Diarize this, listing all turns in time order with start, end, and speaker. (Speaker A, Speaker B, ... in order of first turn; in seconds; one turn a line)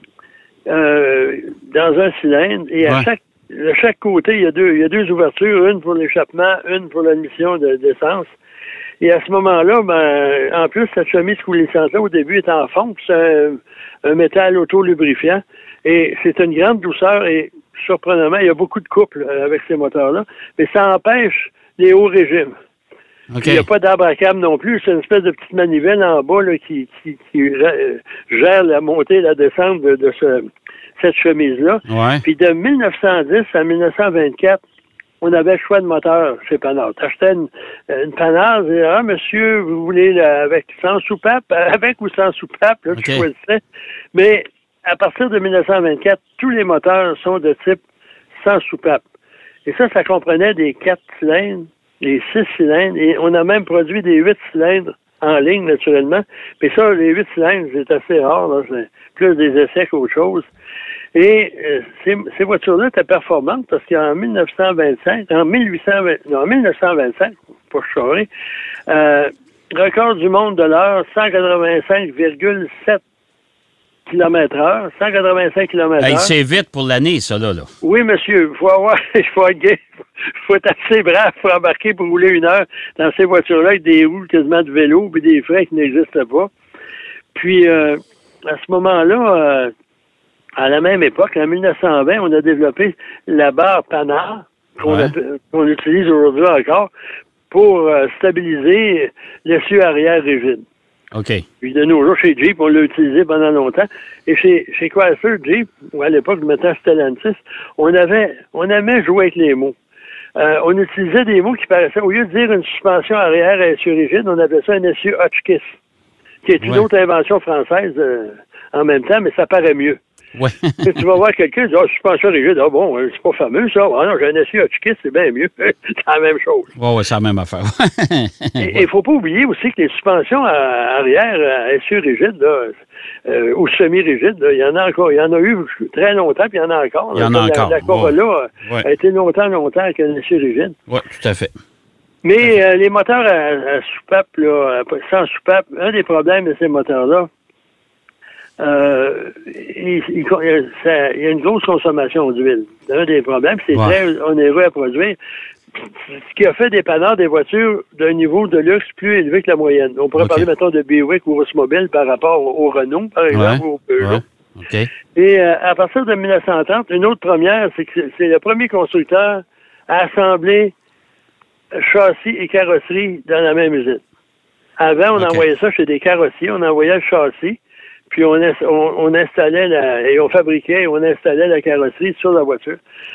Speaker A: 0.7-8.3
Speaker A: 9.0-22.5
Speaker B: 23.3-23.6
Speaker A: 23.4-30.5
Speaker A: 31.0-34.6
Speaker B: 31.9-32.2
Speaker A: 35.2-43.6
Speaker B: 42.9-43.3
Speaker A: 44.1-47.8
Speaker A: 48.4-49.0
Speaker A: 49.6-60.5
Speaker A: 61.1-68.3
Speaker A: 68.9-73.0
Speaker A: 74.0-76.3
Speaker B: 76.0-77.7
Speaker A: 77.8-86.5
Speaker A: 87.3-89.7
Speaker A: 90.6-96.9
Speaker B: 94.8-95.1
Speaker A: 97.5-100.6
Speaker B: 101.1-101.4
Speaker A: 101.6-109.7
Speaker A: 110.3-115.8
Speaker A: 116.4-120.0
Speaker B: 120.3-121.0
Speaker A: 120.8-126.7
Speaker B: 126.8-128.8
Speaker A: 128.6-140.8
Speaker B: 137.1-138.8
Speaker B: 140.9-141.5
Speaker A: 142.2-147.3
Speaker A: 148.6-155.2
Speaker A: 156.0-164.2
Speaker B: 160.2-160.5
Speaker B: 163.3-164.9
Speaker A: 165.1-170.7
Speaker A: 171.7-174.0
Speaker A: 174.8-182.8
Speaker B: 175.2-175.4